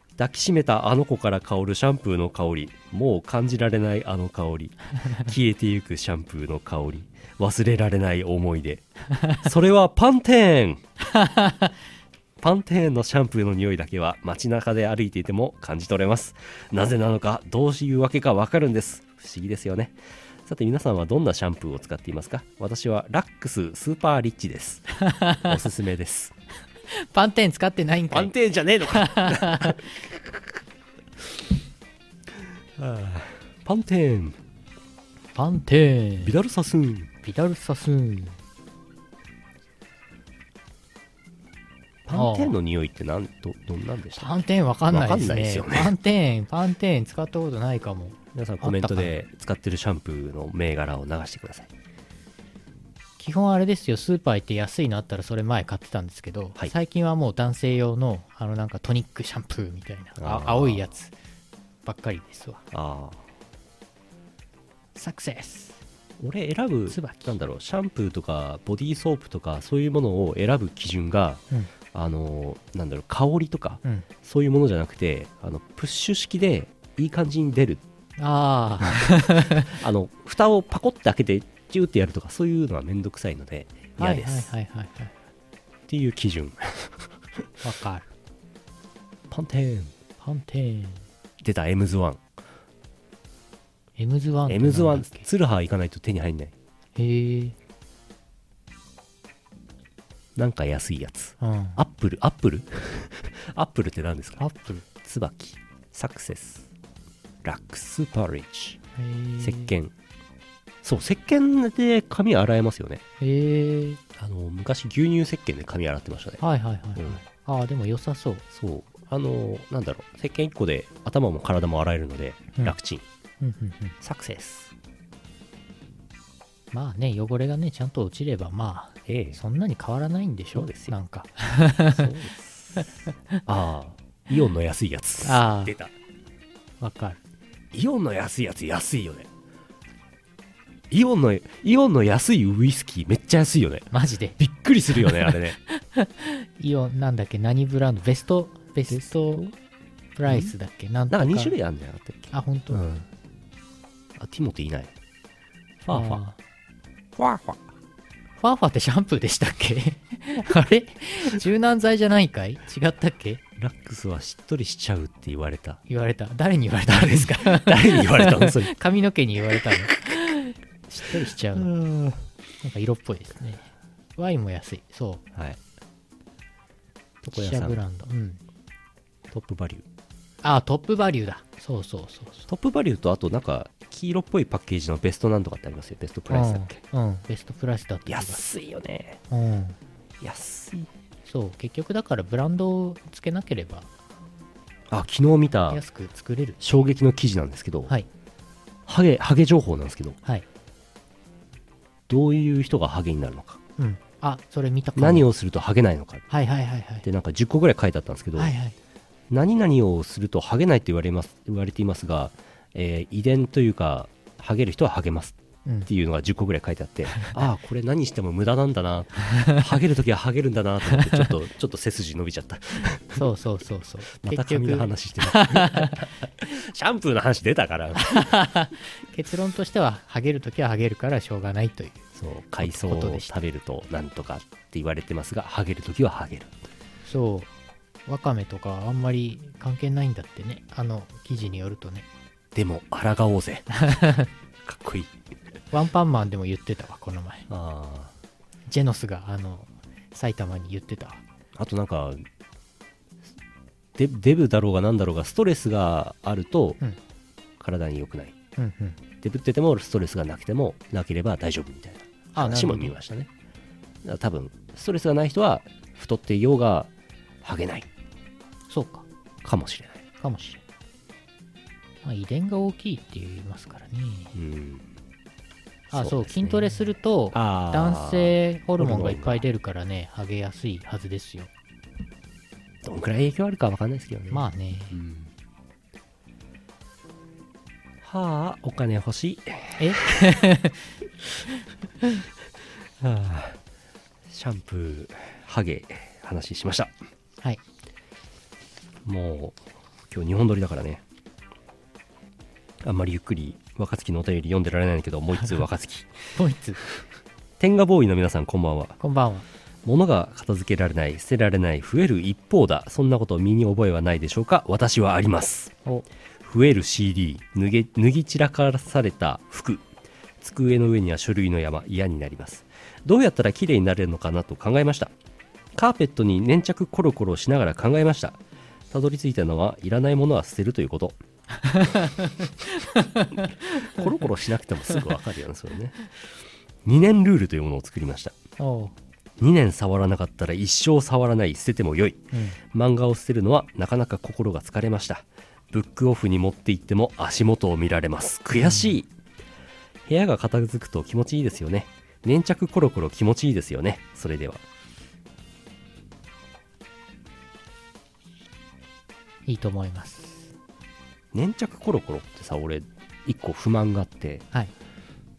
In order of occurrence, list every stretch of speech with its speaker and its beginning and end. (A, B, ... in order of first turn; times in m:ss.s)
0:00.2-0:10.8 A
0:11.1-0:11.7 B
0:12.4-0:26.3 A
0:25.0-0:25.6 B
0:26.9-0:28.3 B
0:28.1-0:30.4 A
0:28.9-0:29.8 B
0:32.8-0:34.4 A
0:35.3-0:36.4 B
0:36.2-0:37.1 A
0:37.2-0:38.4 B
0:42.0-0:44.3 A
0:42.1-0:42.6 B
0:44.1-0:49.1 B
0:44.9-0:45.9 A
0:48.3-0:51.7 A
0:53.2-1:01.1 B
1:00.2-1:00.9 A
1:01.8-1:02.6 B
1:02.7-1:03.2 A
1:04.9-1:05.8 B
1:06.2-1:11.4 A
1:06.9-1:07.3 B
1:11.9-1:17.8 A
1:18.2-1:19.7 B
1:18.9-1:24.5 A
1:24.0-1:25.1 B
1:25.9-1:27.1 A
1:27.6-1:28.1 B
1:29.3-1:29.9 A
1:30.2-1:31.0 B
1:31.4-1:32.2 A
1:34.0-1:35.2 B
1:34.5-1:36.5 A
1:37.0-1:37.6 B
1:40.4-1:44.4 A
1:41.4-1:41.8 B
1:44.4-1:44.8 B
1:45.0-1:46.7 A
1:47.4-1:48.8 A
1:49.0-1:49.7 B
1:49.4-1:49.9 A
1:50.8-1:53.0 A
1:53.2-1:54.0 B
1:54.2-1:56.4 A
1:56.4-1:58.4 B
1:58.5-2:03.0 A
2:03.4-2:04.0 B
2:04.0-2:04.7 A
2:06.7-2:12.1 B
2:09.1-2:09.4 A
2:10.5-2:10.9 A
2:11.9-2:12.9 A
2:13.4-2:15.9 A
2:15.2-2:15.8 B
2:16.8-2:17.2 B
2:17.7-2:19.3 A
2:20.9-2:25.6 A
2:23.9-2:24.4 B
2:24.9-2:29.4 B
2:28.9-2:29.5 A
2:30.2-2:31.5 B
2:30.3-2:30.5 A
2:31.1-2:33.1 A
2:32.3-2:32.8 B
2:34.2-2:34.9 A
2:35.8-2:36.2 A
2:35.9-2:36.4 B
2:37.2-2:37.6 A
2:38.4-2:43.4 B
2:43.6-2:45.8 A
2:45.9-2:51.7 B
2:46.9-2:48.8 A
2:51.0-2:52.2 A
2:52.6-2:55.2 B
2:55.3-2:55.6 A
2:57.2-2:57.8 A
2:57.3-2:58.4 B
2:59.3-2:59.8 A
3:00.4-3:02.5 B
3:02.5-3:06.8 A
3:06.3-3:08.4 B
3:08.1-3:09.2 A
3:09.3-3:09.8 B
3:10.2-3:10.9 A
3:11.2-3:13.9 B
3:14.9-3:15.8 A
3:15.7-3:16.6 B
3:16.6-3:17.9 A
3:18.9-3:20.2 A
3:22.1-3:23.6 A
3:23.8-3:25.3 B
3:25.0-3:26.2 A
3:26.3-3:27.0 B
3:27.0-3:28.5 A
3:28.4-3:28.8 B
3:29.3-3:43.2 A
3:41.0-3:41.3 B
3:43.2-3:46.0 B
3:44.1-3:48.3 A
3:48.0-3:52.0 B
3:52.1-3:56.5 A
3:52.6-3:53.3 B
3:57.0-3:57.5 B
3:58.0-4:02.1 B
4:02.5-4:03.7 A
4:03.8-4:04.3 B
4:04.6-4:05.2 A
4:05.7-4:07.5 B
4:07.5-4:08.1 A
4:08.7-4:11.2 B
4:11.6-4:12.2 A
4:14.0-4:16.8 A
4:17.6-4:18.4 A
4:18.6-4:19.0 B
4:19.2-4:23.3 A
4:22.3-4:22.9 B
4:24.0-4:26.9 A
4:27.4-4:27.9 A
4:28.7-4:29.0 B
4:29.4-4:30.0 A
4:30.2-4:30.6 B
4:32.0-4:34.3 B
4:34.3-4:34.8 A
4:35.9-4:41.5 B
4:35.9-4:36.7 A
4:37.3-4:39.4 A
4:42.8-4:45.3 A
4:44.3-4:45.0 B
4:48.0-4:50.2 A
4:49.8-4:50.8 B
4:53.0-4:53.6 A
4:54.3-4:56.9 A
4:59.0-5:01.0 A
5:02.8-5:06.3 A
5:06.4-5:06.8 B
5:07.6-5:09.0 A
5:09.0-5:09.4 B
5:09.8-5:15.8 A
5:16.4-5:19.8 A
5:20.4-5:25.1 A
5:25.7-5:28.4 A
5:28.9-5:31.2 A
5:31.6-5:33.4 B
5:33.7-5:36.3 A
5:36.8-5:38.3 A
5:38.6-5:38.9 B
5:39.4-5:49.1 A
5:42.3-5:42.6 B
5:48.6-5:48.9 B
5:50.0-5:54.6 A
5:59.4-6:00.5 B
6:01.3-6:04.4 A